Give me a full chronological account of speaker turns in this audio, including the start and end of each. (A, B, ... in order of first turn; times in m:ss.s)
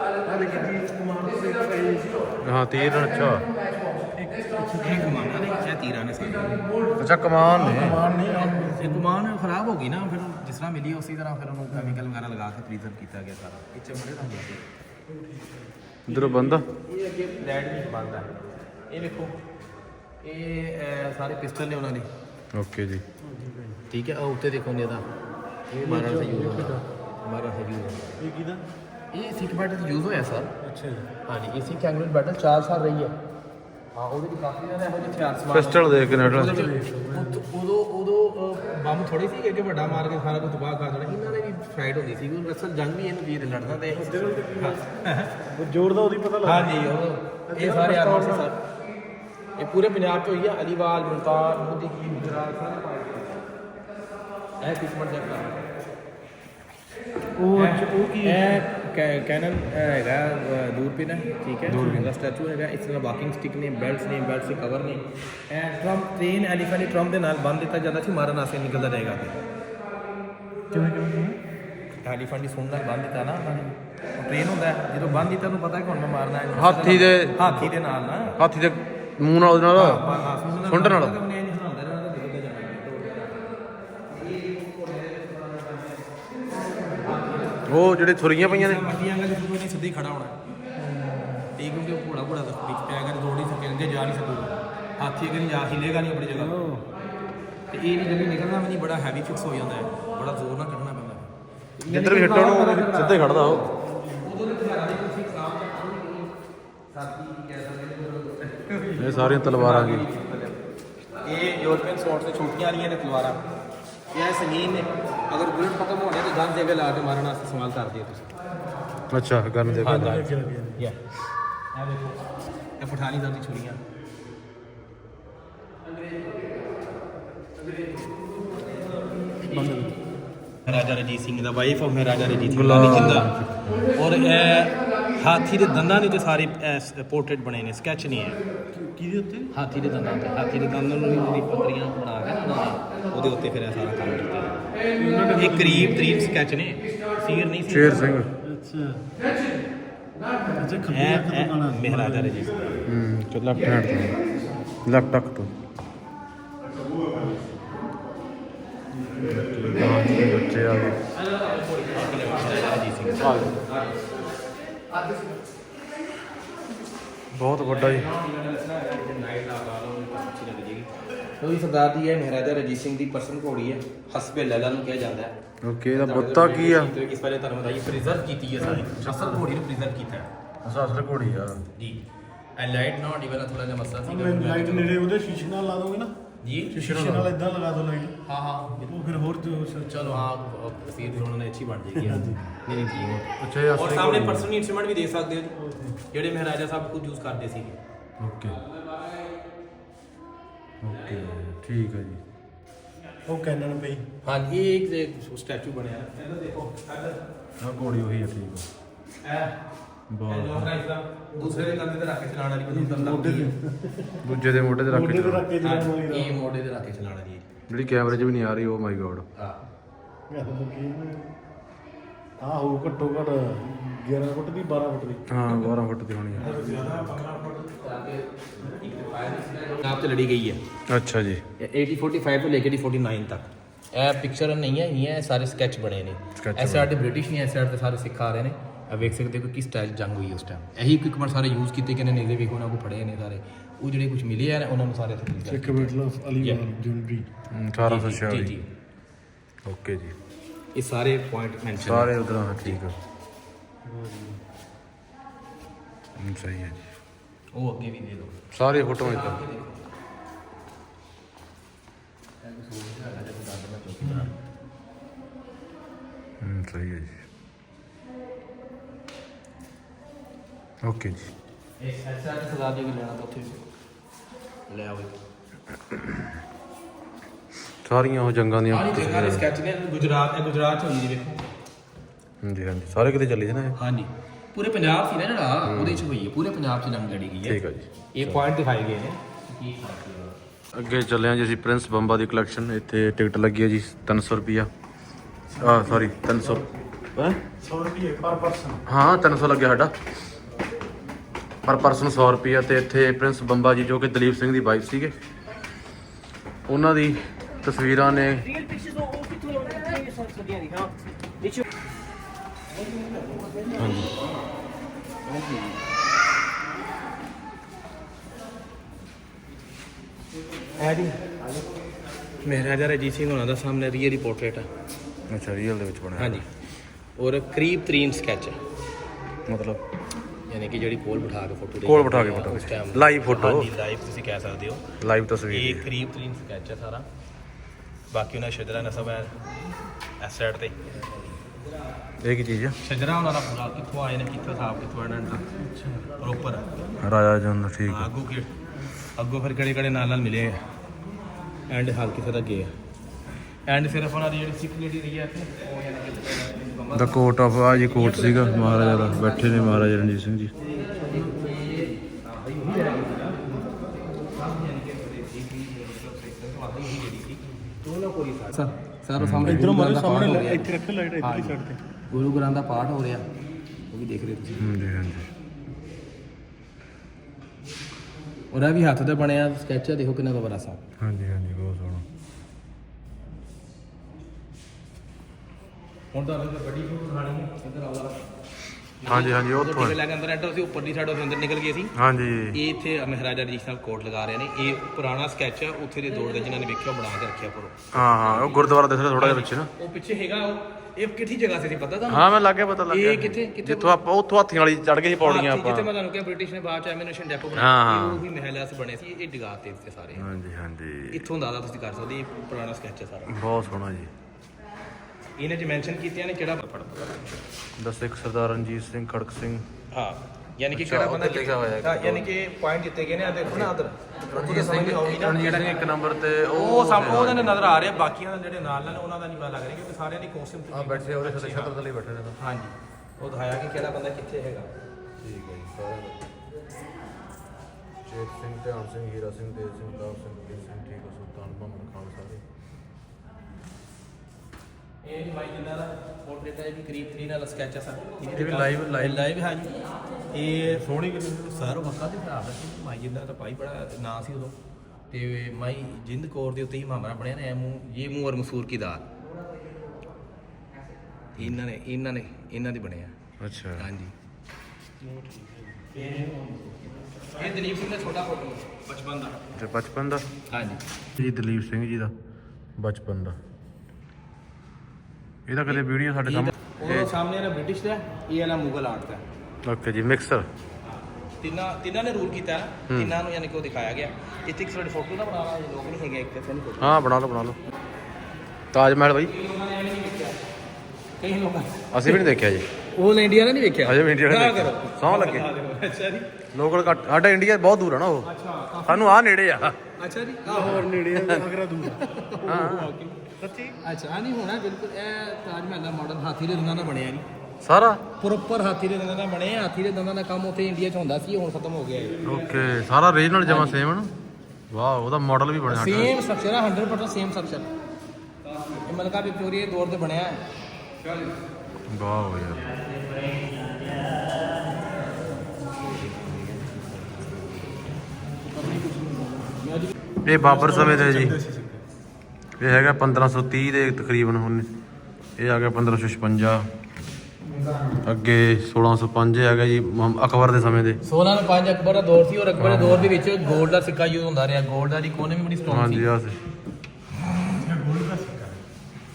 0:00.2-0:02.2 A
0:02.4-0:03.5 B
0:04.2-0:05.3 A
0:04.8-0:06.7 C
0:07.0-0:08.0 B
0:07.6-0:09.0 A
0:08.2-0:14.7 C
0:15.1-0:15.7 A
0:16.1-0:16.7 B
0:16.1-0:19.4 C
0:20.2-0:22.1 C
0:22.5-0:23.0 B
0:23.2-0:23.8 A
0:23.9-0:25.1 C
0:25.7-0:28.2 C
0:25.8-0:26.8 A
0:28.2-0:28.7 A
0:29.1-0:30.5 C
0:30.6-0:31.1 A
0:31.3-0:33.1 C
0:34.0-0:45.3 C
0:35.5-0:36.7 B
0:36.2-0:37.4 A
0:43.8-0:44.8 A
0:45.4-0:46.9 A
0:46.4-0:48.6 C
0:47.5-0:48.5 A
0:49.6-0:53.5 C
0:54.6-0:55.6 C
0:57.4-0:58.6 A
0:57.6-1:09.4 C
1:01.7-1:02.1 B
1:10.7-1:11.4 A
1:12.0-1:18.4 C
1:16.5-1:17.7 B
1:18.4-1:20.0 B
1:19.7-1:23.6 C
1:20.6-1:21.2 B
1:24.1-1:26.2 C
1:26.8-1:30.4 C
1:27.7-1:29.0 B
1:31.0-1:31.4 A
1:31.6-1:36.5 C
1:36.3-1:36.8 A
1:37.7-1:46.3 C
1:41.9-1:43.6 B
1:43.8-1:44.4 A
1:46.9-1:50.6 C
1:49.0-1:50.1 B
1:51.2-1:53.4 C
1:54.1-1:58.3 C
1:59.1-2:00.3 B
1:59.6-2:00.8 A
1:59.8-2:00.2 C
2:01.7-2:02.2 C
2:02.8-2:03.8 C
2:09.4-2:10.0 A
2:09.5-2:09.8 C
2:10.6-2:13.3 C
2:12.4-2:13.9 B
2:14.0-2:18.4 C
2:18.7-2:19.5 A
2:19.5-2:24.6 C
2:25.0-2:26.1 A
2:25.4-2:28.1 C
2:27.7-2:28.3 B
2:28.4-2:29.1 A
2:30.6-2:32.8 A
2:30.9-2:32.8 C
2:32.9-2:34.2 B
2:34.8-2:35.5 B
2:36.6-2:37.6 A
2:38.9-2:39.9 A
2:39.3-2:41.0 B
2:41.1-2:44.0 C
2:43.2-2:43.6 B
2:47.3-2:48.1 B
2:47.5-2:55.3 C
2:55.6-2:56.9 B
2:55.9-3:00.3 C
2:58.7-2:59.4 B
3:00.6-3:01.6 B
3:01.8-3:02.0 C
3:02.6-3:05.0 C
3:04.0-3:06.1 A
3:06.4-3:06.8 C
3:06.7-3:08.2 A
3:06.8-3:07.3 B
3:08.3-3:09.0 C
3:08.8-3:10.3 A
3:09.9-3:15.6 C
3:11.9-3:12.4 A
3:13.3-3:14.5 B
3:15.6-3:16.0 A
3:16.1-3:17.8 C
3:18.2-3:18.6 B
3:18.6-3:19.3 C
3:20.8-3:22.2 B
3:23.3-3:24.1 A
3:24.2-3:27.2 C
3:27.6-3:28.7 B
3:29.2-3:29.6 C
3:30.1-3:30.7 B
3:30.3-3:33.5 C
3:31.4-3:31.8 A
3:32.7-3:34.3 A
3:34.2-3:35.5 B
3:34.9-3:36.4 A
3:35.6-3:37.5 C
3:37.7-3:39.3 B
3:40.3-3:41.3 A
3:42.4-3:45.7 A
3:45.3-3:46.5 B
3:46.3-3:50.6 C
3:46.4-3:47.2 A
3:50.9-3:51.4 B
3:51.6-4:06.6 C
3:56.4-3:56.9 B
4:05.5-4:07.3 A
4:07.5-4:08.6 B
4:07.8-4:08.7 C
4:09.7-4:10.2 B
4:10.7-4:12.8 C
4:11.8-4:13.0 B
4:13.8-4:14.4 A
4:16.2-4:16.9 B
4:17.5-4:19.8 C
4:18.5-4:19.4 B
4:22.4-4:24.3 C
4:26.4-4:27.2 B
4:30.8-4:31.3 B
4:31.8-4:33.6 C
4:34.7-4:35.1 C
4:35.9-4:36.3 B
4:37.8-4:39.5 B
4:38.7-4:41.5 C
4:42.4-4:43.8 B
4:43.8-4:47.6 C
4:45.6-4:46.1 B
4:47.4-4:48.4 B
4:48.1-4:50.4 C
4:50.7-4:54.7 B
4:55.5-4:56.7 A
4:55.6-4:56.6 B
4:57.2-4:57.4 B
4:57.5-4:58.8 A
4:58.9-4:59.9 B
5:01.6-5:05.2 B
5:06.7-5:08.4 B
5:08.4-5:11.6 C
5:12.9-5:13.7 A
5:13.8-5:14.1 B
5:15.3-5:15.8 C
5:20.8-5:21.3 C
5:22.4-5:24.7 C
5:25.3-5:26.4 B
5:26.2-5:26.6 C
5:27.2-5:28.6 C
5:29.5-5:29.8 B
5:30.5-5:35.0 C
5:31.8-5:33.7 B
5:35.0-5:35.9 B
5:35.5-5:37.1 C
5:38.1-5:39.4 C
5:40.2-5:41.4 C
5:42.2-5:42.8 B
5:42.8-5:45.4 C
5:45.6-5:46.1 A
5:46.2-5:46.7 C
5:47.0-5:48.1 B
5:47.9-5:48.5 C
5:49.2-5:50.6 C
5:51.7-5:52.7 C
5:53.7-6:00.0 C
5:56.9-6:00.5 B
6:00.6-6:11.6 C
6:09.2-6:09.7 B
6:09.4-6:11.8 A
6:12.1-6:13.3 C
6:13.9-6:14.7 C
6:14.6-6:15.3 B
6:18.5-6:20.8 C
6:21.0-6:22.0 B
6:26.1-6:28.2 C
6:29.0-6:31.9 C
6:29.1-6:30.0 B
6:32.0-6:32.6 B
6:32.5-6:42.3 C
6:37.9-6:39.7 B
6:42.1-6:45.9 B
6:42.9-6:44.0 C
6:45.2-6:50.3 C
6:47.5-6:48.2 B
6:50.2-6:51.3 B
6:51.1-6:53.4 C
6:53.3-6:54.1 B
6:55.4-6:57.3 C
6:57.8-6:59.7 B
6:59.9-7:05.8 C
7:00.7-7:02.3 B
7:04.3-7:07.6 B
7:06.5-7:11.8 C
7:10.7-7:12.4 B
7:12.4-7:14.7 C
7:15.2-7:16.2 B
7:18.0-7:22.4 B
7:25.0-7:29.8 C
7:28.3-7:29.3 B
7:30.3-7:34.6 C
7:30.7-7:31.8 B
7:35.1-7:39.1 C
7:41.4-7:43.2 C
7:43.4-7:43.9 B
7:43.8-7:44.1 C
7:45.0-7:46.9 A
7:46.0-7:46.3 C
7:47.3-7:49.4 C
7:49.5-7:50.2 B
7:50.5-7:50.8 C
7:51.2-7:52.1 B
7:52.8-7:53.4 B
7:55.5-7:57.1 B
7:55.7-7:59.2 C
7:59.6-8:00.5 B
8:01.4-8:07.0 C
8:02.9-8:03.2 B
8:06.8-8:07.6 B
8:08.7-8:09.3 B
8:09.3-8:10.4 C
8:11.2-8:12.2 C
8:11.9-8:12.7 B
8:13.0-8:16.3 C
8:13.8-8:15.5 B
8:16.5-8:18.3 B
8:18.2-8:19.2 C
8:18.8-8:19.8 B
8:20.0-8:20.9 C
8:20.4-8:22.1 A
8:21.2-8:21.5 B
8:21.8-8:23.2 C
8:22.4-8:22.9 B
8:23.4-8:23.8 A
8:23.8-8:27.3 C
8:27.6-8:28.0 B
8:28.2-8:32.6 C
8:32.2-8:34.1 B
8:33.4-8:33.8 C
8:34.7-8:36.1 B
8:35.7-8:37.7 C
8:38.8-8:40.4 C
8:41.9-8:42.8 B
8:46.0-8:47.2 C
8:48.4-8:49.6 A
8:49.6-8:49.9 C
8:50.2-8:51.4 B
8:50.3-8:51.8 A
8:52.6-8:54.7 B
8:55.4-8:56.7 B
8:57.7-8:58.0 C
8:58.0-9:01.0 B
9:01.0-9:06.1 C
9:02.6-9:03.1 B
9:05.7-9:06.4 B
9:07.6-9:08.6 A